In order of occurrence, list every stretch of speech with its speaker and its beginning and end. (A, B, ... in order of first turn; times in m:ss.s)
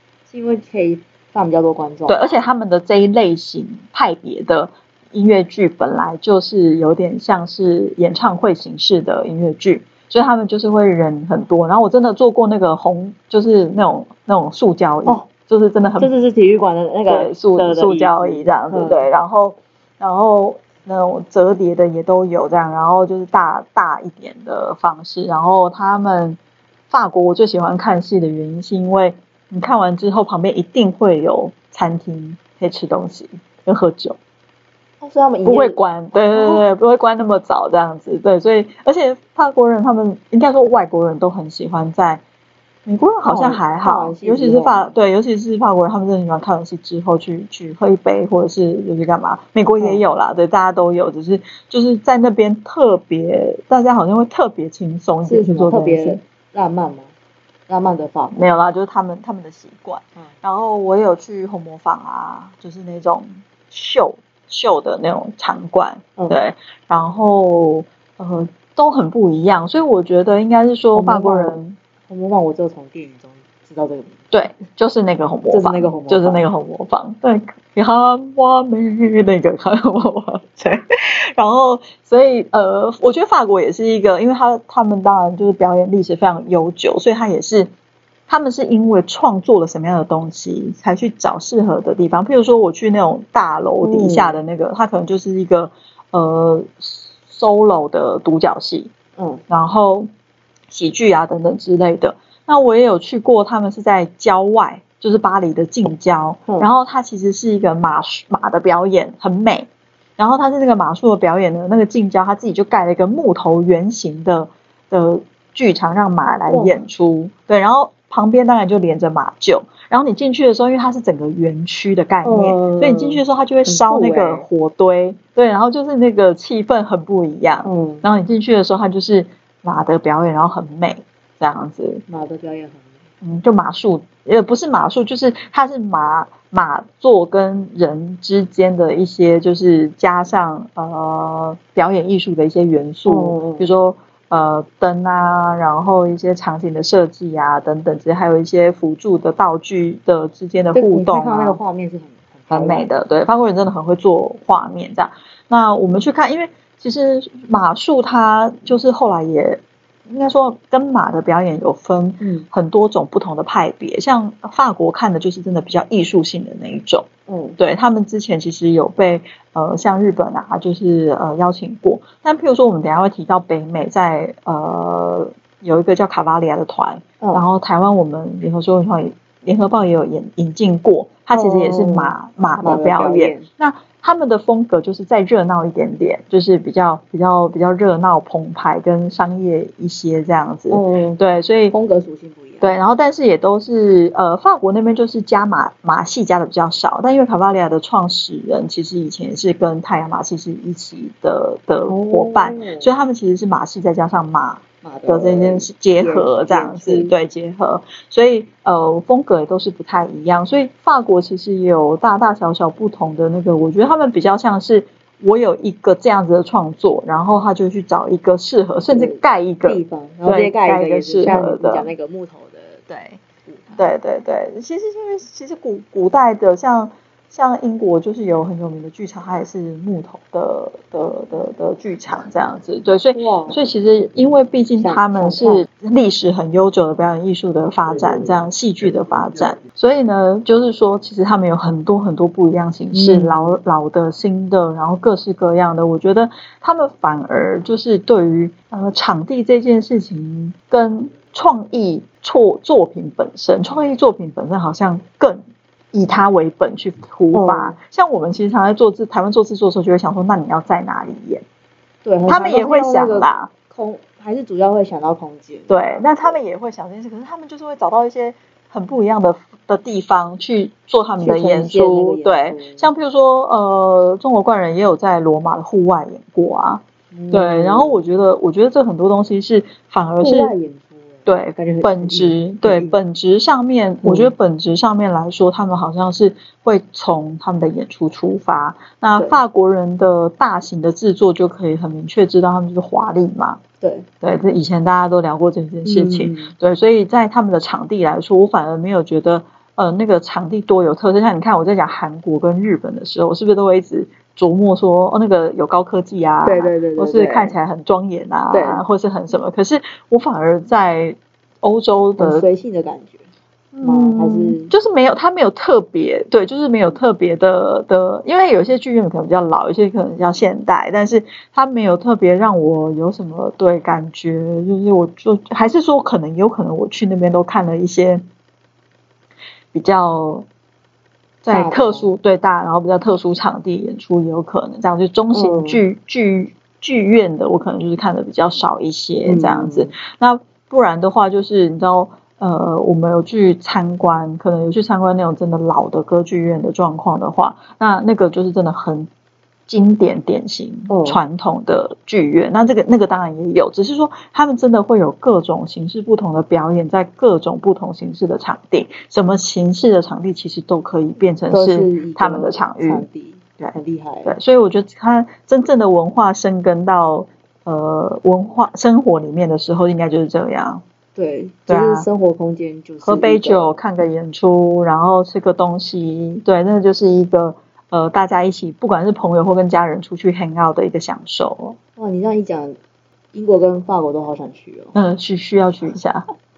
0:00.3-0:02.3 A
0:02.1-0:16.1 B
0:16.0-0:19.1 A
0:17.1-0:26.4 B
0:26.9-0:34.2 B
0:35.0-0:36.6 A
0:35.4-0:42.2 B
0:42.9-0:56.2 B
0:43.2-0:45.0 A
0:55.3-0:57.1 A
0:57.7-0:58.4 A
0:58.3-1:11.8 B
1:10.9-1:14.3 A
1:14.3-1:20.8 B
1:15.5-1:16.4 A
1:21.4-1:27.7 B
1:28.3-1:38.9 B
1:33.8-1:34.4 A
1:39.2-1:39.4 A
1:39.5-1:40.1 B
1:40.7-2:12.0 B
1:56.5-1:56.8 A
2:02.2-2:04.5 A
2:07.6-2:08.1 A
2:12.1-2:13.0 A
2:13.2-2:31.6 B
2:23.1-2:23.7 A
2:30.7-2:32.9 A
2:32.5-2:47.1 B
2:42.2-2:42.5 A
2:47.3-2:47.6 A
2:47.6-3:11.7 B
3:01.3-3:03.5 A
3:10.7-3:12.8 A
3:12.6-3:41.9 B
3:21.9-3:22.9 A
3:24.8-3:27.1 A
3:38.9-3:42.9 A
3:42.9-3:43.2 B
3:43.4-3:43.8 A
3:43.8-4:15.4 B
3:53.1-3:53.6 A
3:54.8-3:55.7 A
4:02.9-4:03.6 A
4:15.9-4:21.4 B
4:17.3-4:17.8 A
4:22.0-4:26.4 A
4:22.3-4:23.5 B
4:25.7-4:40.5 B
4:31.2-4:32.9 A
4:37.1-4:38.1 A
4:40.2-4:43.0 A
4:41.3-4:53.6 B
4:44.0-4:44.3 A
4:53.8-4:54.1 A
4:54.2-5:12.5 B
4:55.8-4:56.5 A
5:06.4-5:07.6 A
5:08.5-5:08.8 A
5:12.2-5:13.3 A
5:13.7-5:28.2 B
5:13.8-5:14.7 A
5:29.7-5:30.5 B
5:31.4-5:49.1 B
5:31.5-5:32.1 A
5:35.3-5:35.8 A
5:39.2-5:39.9 A
5:49.7-6:03.1 B
5:50.9-5:51.2 A
6:01.5-6:04.4 A
6:03.6-6:10.8 B
6:11.2-6:13.7 A
6:11.7-6:12.1 B
6:13.0-6:21.8 B
6:22.0-6:22.8 A
6:23.3-6:25.0 A
6:24.9-6:26.2 B